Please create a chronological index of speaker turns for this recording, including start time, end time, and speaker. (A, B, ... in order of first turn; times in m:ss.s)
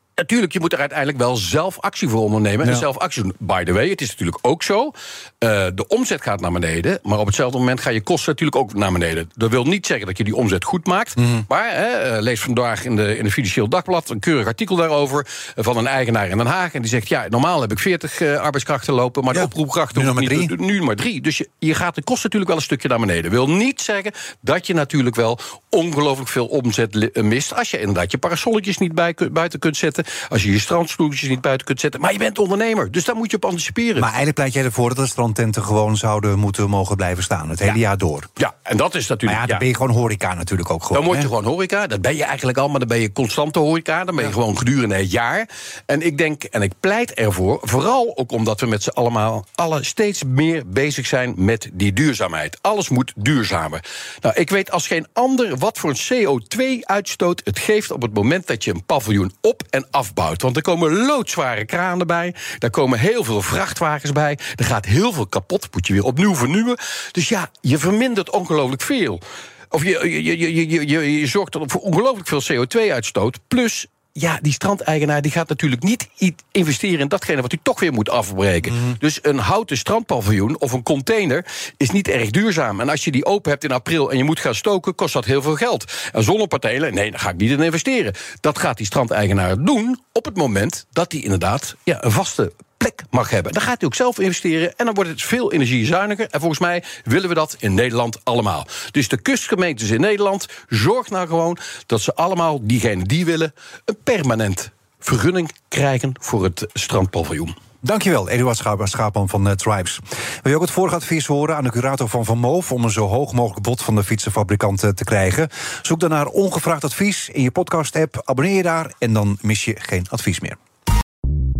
0:00.2-0:34.1 A
0:19.3-0:20.5 B
0:34.0-0:38.3 B
0:38.4-0:39.6 A
0:39.3-0:41.3 B
0:40.9-1:47.5 A
1:47.8-2:00.6 B